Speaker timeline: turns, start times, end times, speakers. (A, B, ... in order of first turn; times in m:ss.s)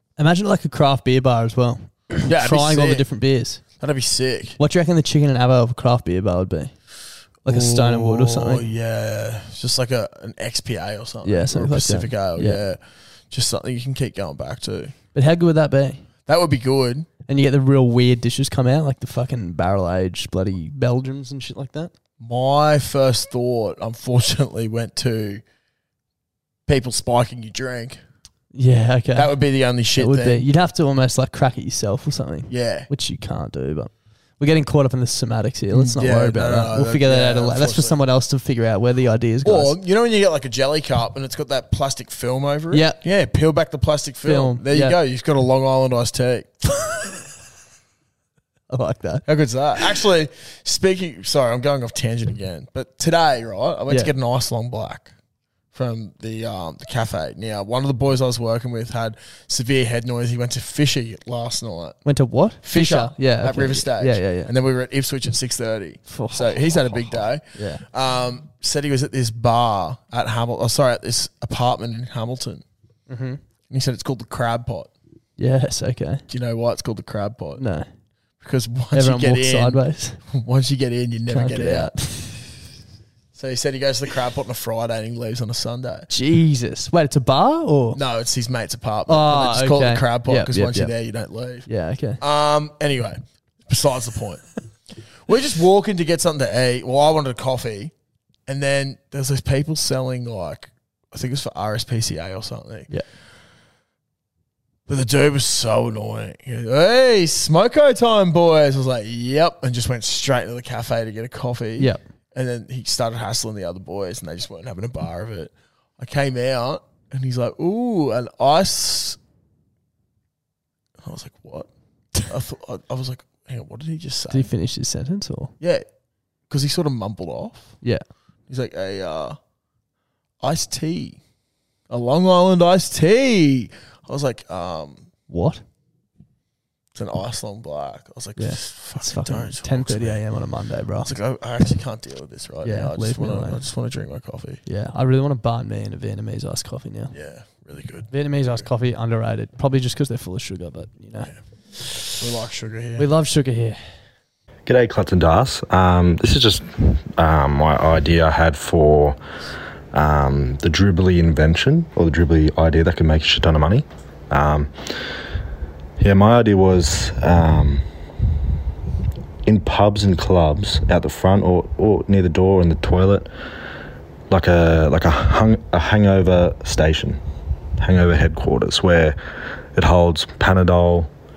0:00.2-0:03.6 A
0:02.2-0:03.0 B
0:03.8-0:04.6 B
0:04.6-0:06.7 A
0:07.4-0:08.6 A
0:07.4-0:12.8 B
0:11.2-0:12.6 A
0:13.3-0:14.9 B
0:15.1-0:16.0 A
0:16.2-0:17.1 B
0:17.3-0:21.9 A
0:22.2-0:25.4 B
0:26.7-0:28.0 B
0:28.5-0:29.3 A
0:29.1-0:30.4 B
0:29.9-0:39.8 A
0:32.5-0:32.9 B
0:35.7-0:38.0 B
0:39.4-0:46.9 B
0:42.7-0:43.0 A
0:44.2-0:45.0 A
0:48.7-0:49.3 A
0:49.2-0:55.1 B
0:55.7-1:02.0 B
1:02.0-1:04.5 A
1:02.6-1:12.6 B
1:06.1-1:07.8 A
1:13.1-1:13.4 A
1:13.7-1:14.9 B
1:15.4-1:16.2 A
1:16.3-1:17.6 B
1:17.6-1:17.9 A
1:18.4-1:21.9 B
1:18.9-1:20.2 A
1:21.3-1:22.5 A
1:23.3-1:26.1 B
1:26.1-1:28.0 A
1:27.9-1:31.7 B
1:29.1-1:30.9 A
1:31.7-1:32.2 A
1:32.2-1:34.4 B
1:35.2-1:37.9 B
1:38.5-1:42.9 B
1:44.9-1:59.2 B
2:01.0-2:01.7 B
2:02.2-2:04.5 B
2:04.3-2:05.5 A
2:05.6-2:05.8 B
2:06.5-2:07.7 B
2:08.5-2:09.4 B
2:10.4-2:11.2 B
2:11.9-2:15.1 B
2:15.3-2:15.6 A
2:16.9-2:20.2 B
2:18.4-2:21.1 A
2:21.0-2:24.6 B
2:22.6-2:23.6 A
2:24.6-2:27.1 A
2:27.1-2:28.6 B
2:28.1-2:32.0 A
2:32.2-2:33.1 B
2:33.0-2:33.8 A
2:34.7-2:39.2 C
2:39.9-2:44.7 C
2:46.0-2:47.8 C
2:49.4-2:53.3 C
2:54.3-2:57.2 C
2:57.8-2:59.2 C
2:59.7-3:01.1 C